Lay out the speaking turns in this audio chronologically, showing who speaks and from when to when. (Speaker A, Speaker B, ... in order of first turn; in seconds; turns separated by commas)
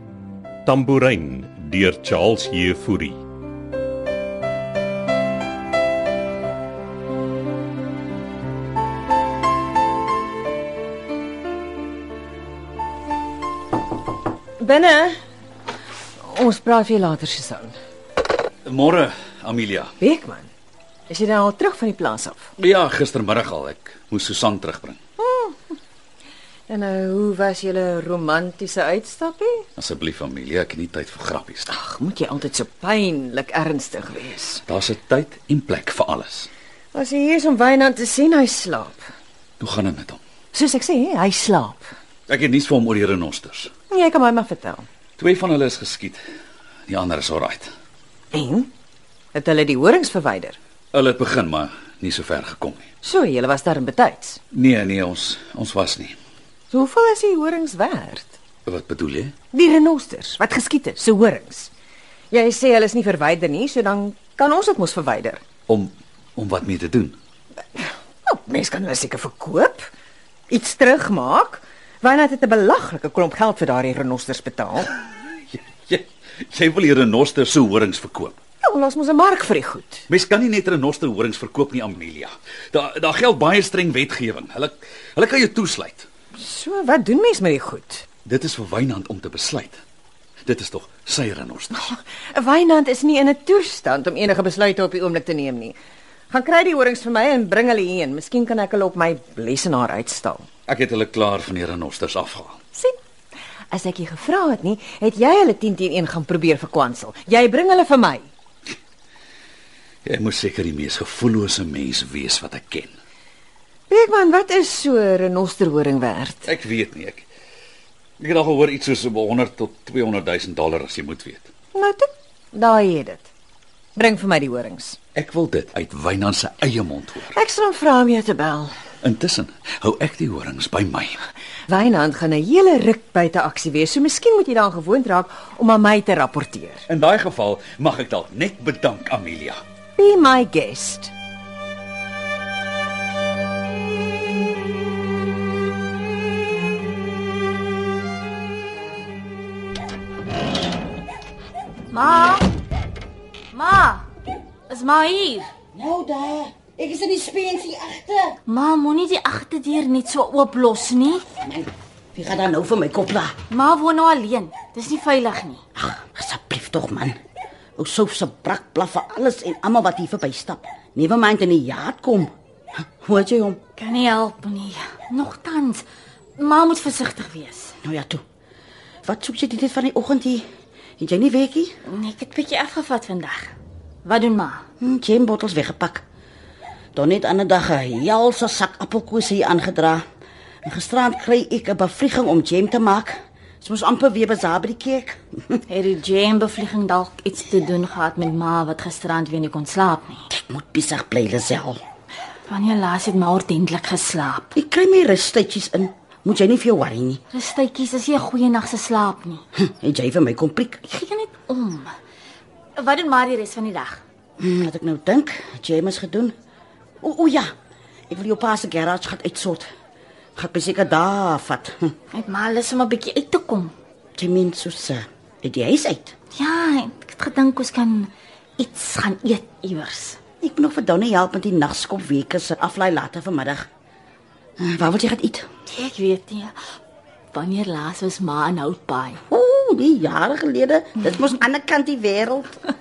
Speaker A: 0.7-3.2, Speaker B: 14.6-15.2, Speaker B: 16.2-17.8, Speaker C: 18.6-19.9, Speaker B: 20.0-20.5, Speaker B: 21.1-22.5, Speaker C: 22.6-25.0, Speaker B: 25.2-25.8, Speaker B: 26.7-29.6, Speaker C: 29.8-31.7, Speaker B: 31.7-34.6, Speaker C: 34.6-36.5, Speaker B: 36.9-39.1, Speaker C: 39.6-40.2, Speaker B: 40.5-41.9, Speaker C: 42.3-43.7, Speaker B: 43.9-44.9, Speaker C: 45.2-46.2, Speaker C: 46.9-47.7, Speaker B: 48.3-48.7, Speaker B: 49.3-50.6, Speaker C: 50.9-52.9, Speaker B: 53.0-54.4, Speaker C: 54.5-56.1, Speaker B: 56.7-58.3, Speaker C: 58.6-59.3, Speaker B: 59.5-61.7, Speaker B: 62.3-65.4, Speaker C: 65.7-67.2, Speaker B: 67.8-69.9, Speaker B: 70.5-74.9, Speaker C: 75.5-78.4, Speaker B: 78.6-80.0, Speaker C: 80.1-86.1, Speaker B: 86.3-88.0, Speaker C: 88.2-89.8, Speaker C: 90.4-91.9, Speaker B: 91.7-95.8, Speaker B: 96.3-100.5, Speaker C: 100.7-102.6, Speaker B: 103.7-108.3, Speaker C: 110.0-112.9, Speaker B: 113.9-116.5, Speaker C: 116.4-117.3, Speaker C: 118.2-121.5, Speaker B: 121.7-123.3, Speaker B: 123.9-125.0, Speaker C: 125.1-127.4, Speaker B: 127.3-128.7, Speaker C: 129.0-131.2, Speaker B: 131.7-136.8, Speaker C: 136.9-139.6, Speaker B: 140.0-141.1, Speaker D: 151.9-152.5, Speaker D: 153.5-154.0, Speaker D: 154.7-155.4, Speaker E: 155.7-158.4, Speaker D: 158.5-161.2, Speaker E: 161.4-163.3, Speaker D: 163.5-165.6, Speaker E: 165.8-167.2, Speaker E: 167.8-173.6, Speaker D: 173.8-175.8, Speaker D: 176.4-177.7, Speaker E: 177.8-178.2, Speaker E: 179.0-180.4, Speaker E: 181.0-181.7, Speaker D: 181.8-183.5, Speaker D: 184.0-184.6, Speaker E: 184.8-186.0, Speaker E: 186.9-190.0, Speaker E: 190.6-195.6, Speaker D: 195.7-200.2, Speaker E: 200.3-201.8, Speaker D: 202.5-204.5, Speaker E: 204.5-207.2, Speaker D: 207.3-209.4, Speaker E: 209.5-210.8, Speaker D: 210.8-211.9, Speaker D: 212.8-214.0, Speaker E: 214.4-216.3, Speaker E: 217.0-217.5, Speaker E: 218.1-219.7, Speaker E: 220.3-221.9, Speaker D: 222.1-223.7, Speaker E: 224.2-226.1, Speaker D: 226.3-230.2, Speaker E: 230.4-233.7, Speaker E: 234.6-235.4, Speaker D: 235.7-236.6, Speaker D: 237.3-239.2, Speaker E: 239.3-242.6